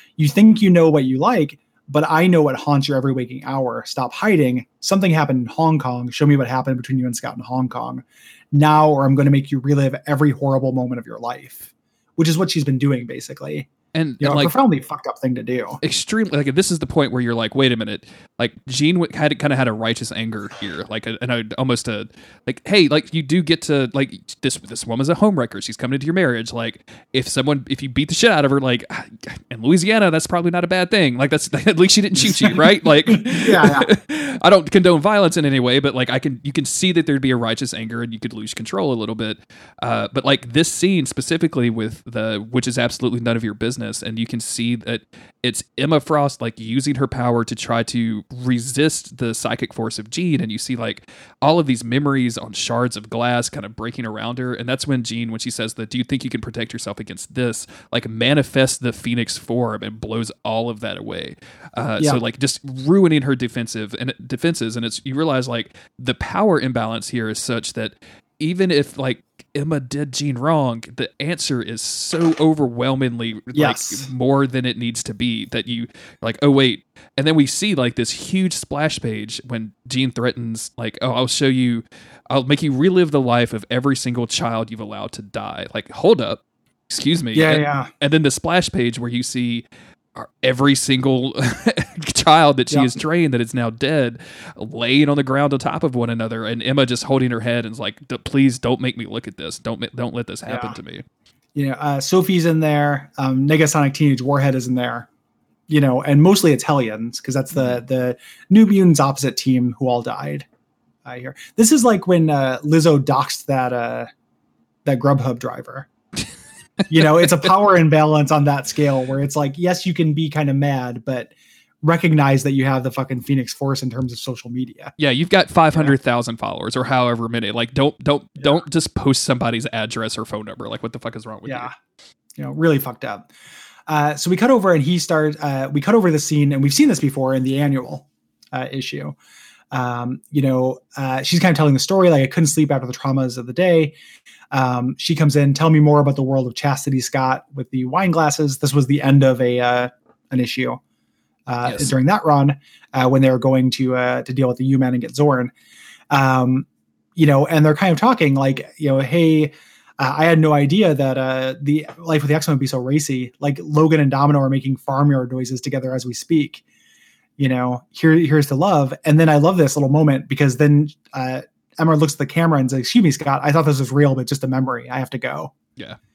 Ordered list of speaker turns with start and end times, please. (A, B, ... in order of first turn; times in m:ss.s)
0:00.2-0:13.7 A
0:13.9-0:14.6 B
0:14.2-0:15.8 A
0:15.8-1:41.0 B
0:32.2-0:33.9 A
1:13.5-1:14.1 A
1:27.4-1:27.9 A
1:32.7-1:33.0 A
1:40.5-1:40.8 A
1:41.6-1:45.1 A
1:45.7-1:50.5 A
1:51.0-1:54.1 A
1:54.8-1:55.9 A
1:56.9-2:04.9 A
2:05.0-2:11.7 B
2:11.5-2:11.7 A
2:12.4-2:13.3 A
2:13.9-2:19.2 A
2:19.7-2:24.0 A
2:24.5-2:30.8 A
2:31.5-2:35.5 A
2:31.6-2:31.9 B
2:36.1-2:46.6 A
2:47.4-2:55.5 A